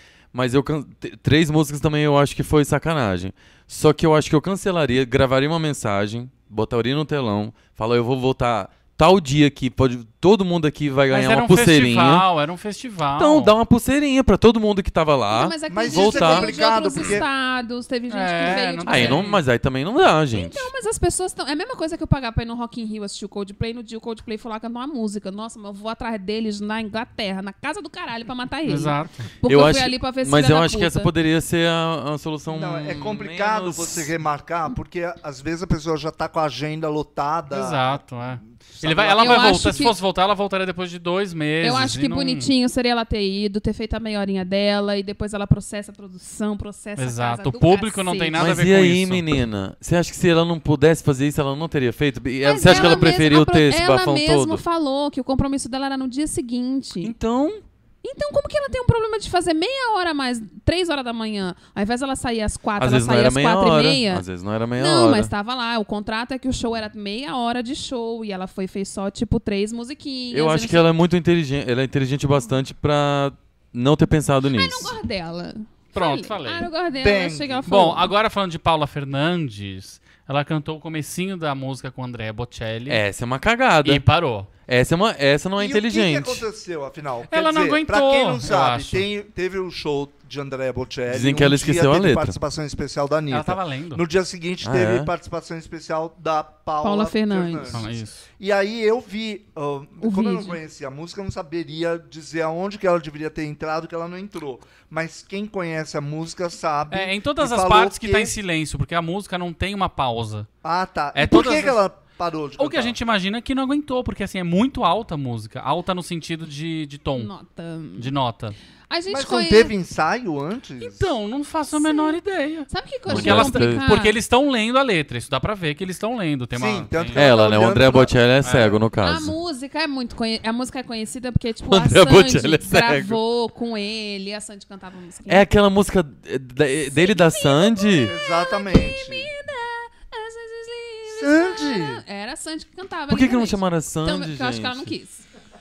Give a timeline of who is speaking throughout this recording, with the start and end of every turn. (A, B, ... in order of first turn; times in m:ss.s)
0:00.3-0:12.3 A
0:11.1-0:13.6 B
0:13.2-0:16.5 A
0:15.3-0:19.3 C
0:15.7-0:17.3 D
0:18.1-0:19.4 B
0:18.8-0:20.7 A
0:20.3-0:31.1 C
0:28.7-0:29.3 B
0:29.4-0:34.1 A
0:32.5-0:38.0 D
0:37.5-0:42.5 B
0:38.7-0:39.9 D
0:39.2-0:40.0 C
0:41.6-0:48.5 C
0:47.0-0:49.4 B
0:48.4-0:54.6 A
0:52.4-0:57.1 C
0:52.6-0:53.1 B
0:57.0-0:57.6 A
0:58.0-1:04.2 C
1:02.8-1:05.3 A
1:04.8-1:10.9 C
1:10.3-1:14.9 A
1:14.5-1:18.1 C
1:15.9-1:16.7 B
1:17.0-1:17.7 D
1:17.7-1:23.0 B
1:22.9-1:24.0 A
1:23.8-1:24.5 B
1:24.7-1:26.4 A
1:25.6-1:48.4 D
1:27.3-1:29.0 B
1:31.1-1:32.4 A
1:33.3-1:34.0 B
1:34.6-1:35.1 A
1:36.8-1:37.8 C
1:37.7-1:38.2 B
1:40.0-1:40.6 C
1:46.9-1:50.5 B
1:50.6-1:53.0 D
1:51.1-1:51.8 B
1:52.6-1:57.3 B
1:57.2-1:58.1 C
1:58.0-1:58.6 B
1:58.9-1:59.7 C
1:59.1-2:01.1 D
2:00.8-2:07.2 B
2:01.7-2:04.2 C
2:03.1-2:03.8 A
2:06.5-2:08.2 D
2:07.2-2:09.4 A
2:08.4-2:08.8 B
2:09.0-2:15.5 C
2:11.7-2:13.2 A
2:15.3-2:18.1 A
2:16.9-2:25.3 C
2:18.1-2:19.3 D
2:21.1-2:22.0 D
2:23.1-2:24.9 A